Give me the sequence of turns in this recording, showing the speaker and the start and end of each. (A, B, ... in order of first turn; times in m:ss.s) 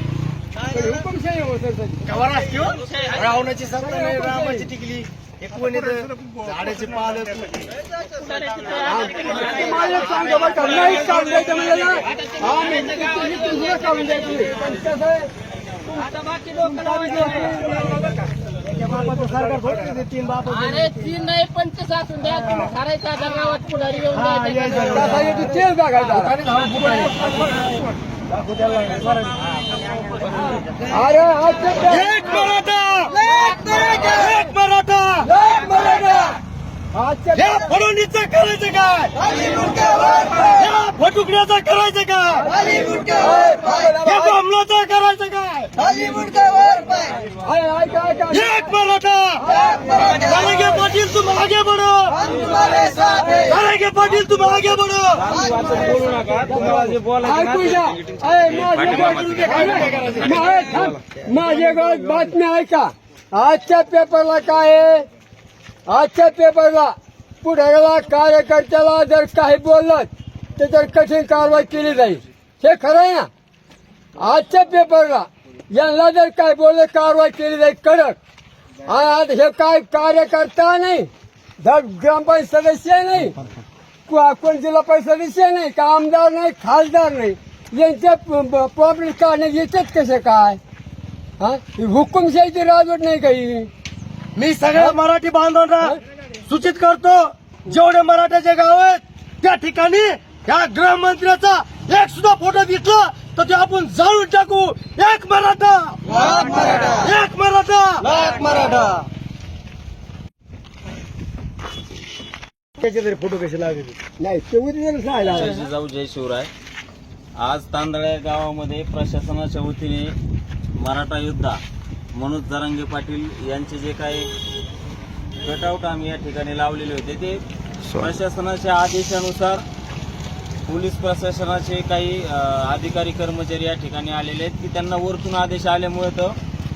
0:00.7-0:02.0 A
0:02.1-0:07.6 B
0:03.8-0:04.7 A
0:08.2-0:08.8 C
0:08.8-0:15.3 A
0:16.0-0:17.8 A
0:16.2-0:16.5 C
0:18.7-0:20.9 B
0:20.5-0:24.9 C
0:24.2-0:25.3 B
0:24.9-0:26.3 A
0:26.1-0:27.5 B
0:28.3-0:29.3 B
0:30.8-0:32.2 A
0:31.9-0:35.3 B
0:35.2-0:36.4 A
0:36.9-0:37.6 A
0:37.3-0:43.1 B
0:42.4-0:44.4 A
0:43.8-0:46.7 B
0:47.4-0:48.7 A
0:48.3-0:55.2 B
0:49.5-0:49.8 A
0:55.2-1:00.3 D
0:56.5-1:05.1 A
0:59.1-1:00.8 B
1:05.9-1:13.3 A
1:14.2-1:18.2 A
1:18.8-1:23.4 A
1:24.1-1:30.6 A
1:31.4-1:33.7 A
1:34.4-1:49.0 B
1:52.8-1:54.0 B
1:54.2-1:55.6 A
1:55.2-1:56.5 D
1:57.4-2:00.1 D
2:00.8-2:01.6 D
2:02.1-2:04.3 D
2:05.4-2:09.6 D
2:10.6-2:16.4 D